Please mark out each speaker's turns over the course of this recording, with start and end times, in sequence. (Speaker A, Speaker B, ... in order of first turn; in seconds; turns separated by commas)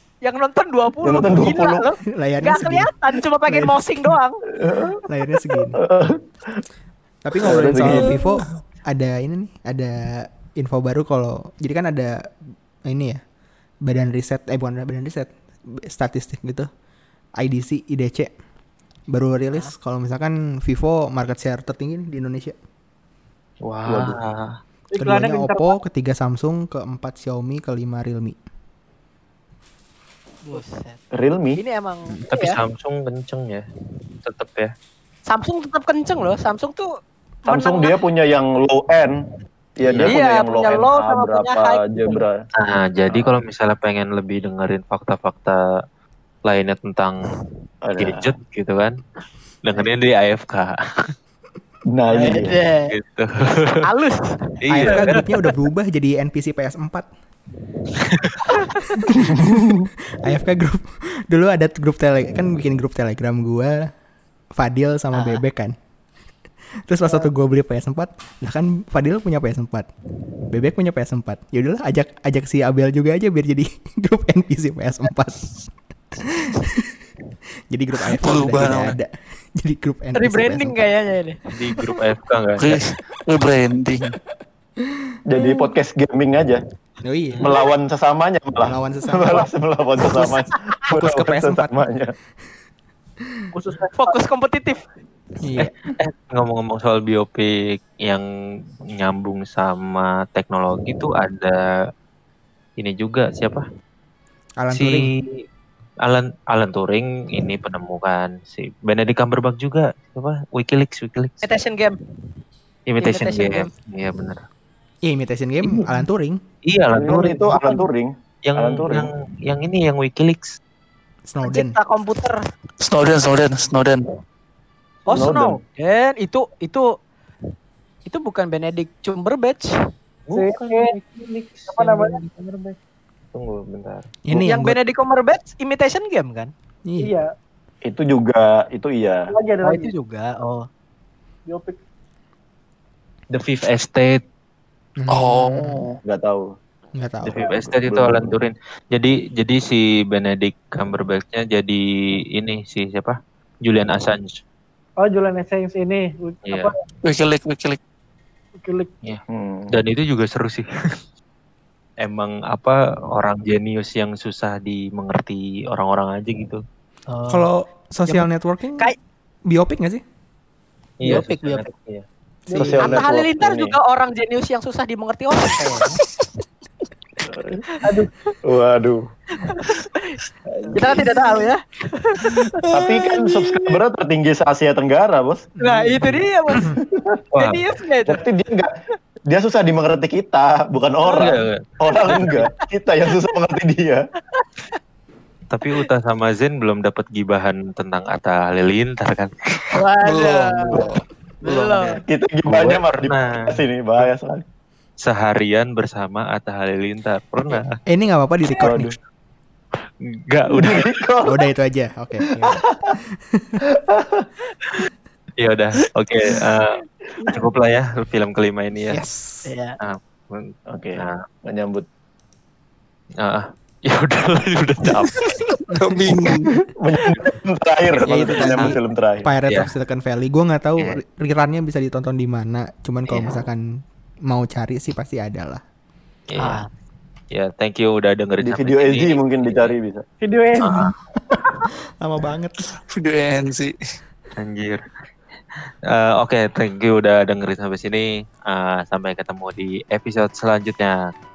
Speaker A: 0.2-4.4, Speaker B: 1.0-1.8, Speaker C: 2.1-2.9, Speaker C: 3.4-4.1, Speaker B: 4.6-4.9, Speaker C: 5.1-5.8, Speaker B: 5.7-6.2, Speaker C: 7.2-12.3, Speaker B: 7.4-8.2, Speaker C: 12.9-13.2, Speaker C: 13.8-16.7, Speaker C: 17.4-18.3, Speaker C: 19.1-22.6, Speaker D: 23.6-24.6, Speaker B: 23.9-24.2, Speaker E: 24.9-25.8, Speaker C: 25.0-28.4, Speaker A: 30.5-31.0, Speaker B: 31.1-31.6, Speaker A: 31.6-32.6, Speaker D: 32.2-33.6, Speaker D: 34.2-34.7, Speaker A: 35.3-36.9, Speaker A: 37.4-37.9, Speaker B: 37.5-39.1, Speaker B: 39.8-42.3, Speaker A: 39.9-42.2, Speaker D: 42.6-45.6, Speaker D: 46.5-47.3, Speaker B: 47.9-48.2, Speaker D: 48.0-49.0, Speaker D: 49.6-51.1, Speaker B: 51.9-52.5, Speaker A: 52.1-53.0, Speaker D: 52.9-53.8, Speaker A: 53.8-55.4, Speaker D: 54.7-55.2, Speaker C: 54.7-57.1, Speaker D: 58.0-58.4, Speaker C: 58.8-59.4, Speaker B: 59.3-59.9, Speaker C: 60.2-63.9, Speaker C: 64.5-65.8, Speaker A: 65.1-65.4, Speaker C: 66.9-69.9, Speaker C: 70.5-75.6, Speaker C: 76.2-76.9, Speaker C: 77.7-80.8, Speaker F: 78.1-78.9, Speaker A: 80.2-81.4, Speaker D: 81.5-82.8, Speaker F: 82.6-84.1, Speaker B: 85.2-86.6, Speaker C: 87.0-87.5, Speaker B: 87.4-92.1, Speaker C: 88.6-89.5, Speaker C: 90.9-91.8, Speaker E: 93.5-94.2, Speaker A: 93.9-94.8, Speaker C: 95.4-95.7, Speaker D: 95.6-98.2, Speaker D: 99.0-101.6, Speaker D: 102.8-103.7, Speaker C: 104.6-105.1, Speaker D: 104.7-105.3, Speaker D: 106.0-111.4, Speaker A: 111.4-112.0, Speaker D: 112.9-114.4, Speaker A: 113.0-113.7, Speaker C: 115.0-116.4, Speaker D: 116.7-117.8, Speaker B: 116.9-119.1, Speaker D: 118.5-120.5, Speaker C: 121.3-121.8, Speaker A: 121.5-122.4, Speaker F: 122.8-124.1, Speaker A: 125.1-126.9, Speaker B: 125.1-125.6, Speaker A: 128.1-129.7, Speaker D: 130.3-132.8, Speaker E: 130.3-130.9, Speaker E: 131.7-132.2, Speaker D: 133.3-134.0, Speaker C: 134.3-134.8, Speaker A: 134.4-136.5, Speaker C: 136.8-137.1, Speaker E: 137.0-137.3, Speaker B: 137.8-139.2, Speaker E: 139.3-139.9, Speaker A: 139.6-140.7, Speaker E: 141.5-141.8, Speaker D: 143.3-144.2, Speaker C: 145.0-145.9, Speaker F: 145.1-146.0, Speaker B: 146.1-146.5, Speaker C: 146.9-147.4, Speaker D: 147.2-154.4, Speaker B: 147.3-148.3, Speaker E: 155.0-156.8, Speaker D: 156.4-156.7, Speaker F: 157.0-157.8, Speaker E: 158.6-158.9, Speaker D: 159.0-161.0, Speaker B: 159.3-159.8, Speaker D: 162.0-166.6, Speaker A: 167.1-167.5, Speaker C: 167.3-168.9, Speaker A: 168.1-168.9, Speaker C: 169.5-170.0, Speaker D: 171.0-172.0, Speaker A: 171.0-171.7, Speaker E: 172.5-172.9, Speaker B: 172.5-173.8, Speaker A: 172.7-176.0, Speaker B: 177.2-177.6, Speaker E: 177.8-178.1, Speaker B: 178.4-179.0, Speaker A: 179.4-183.6, Speaker D: 180.7-181.1, Speaker B: 182.7-185.5, Speaker C: 185.6-186.7, Speaker A: 185.6-186.8, Speaker A: 187.4-188.2, Speaker B: 188.0-188.7, Speaker B: 189.3-194.0, Speaker D: 191.1-192.4, Speaker A: 192.1-192.7, Speaker A: 194.3-194.7, Speaker D: 195.5-199.7, Speaker A: 199.7-200.9, Speaker F: 200.0-200.8, Speaker A: 201.4-202.0, Speaker B: 201.5-204.4, Speaker D: 202.5-204.1, Speaker D: 205.0-207.8, Speaker C: 207.9-208.9, Speaker B: 208.6-208.9, Speaker D: 210.3-210.9, Speaker B: 210.5-211.3, Speaker C: 211.2-212.6, Speaker C: 213.1-213.6, Speaker B: 213.8-214.2, Speaker D: 215.4-219.0, Speaker C: 218.9-219.5, Speaker A: 219.5-219.8, Speaker D: 219.8-221.2, Speaker B: 220.7-221.8, Speaker D: 223.2-225.4, Speaker F: 225.2-226.5, Speaker C: 225.7-226.3, Speaker B: 226.8-229.3, Speaker C: 228.0-235.6, Speaker D: 236.3-236.6, Speaker A: 236.4-236.7, Speaker D: 237.3-239.7, Speaker B: 238.4-240.0, Speaker E: 240.2-240.9, Speaker D: 240.6-240.9, Speaker C: 241.3-242.7, Speaker F: 242.9-243.7, Speaker D: 244.4-244.8, Speaker D: 245.9-251.0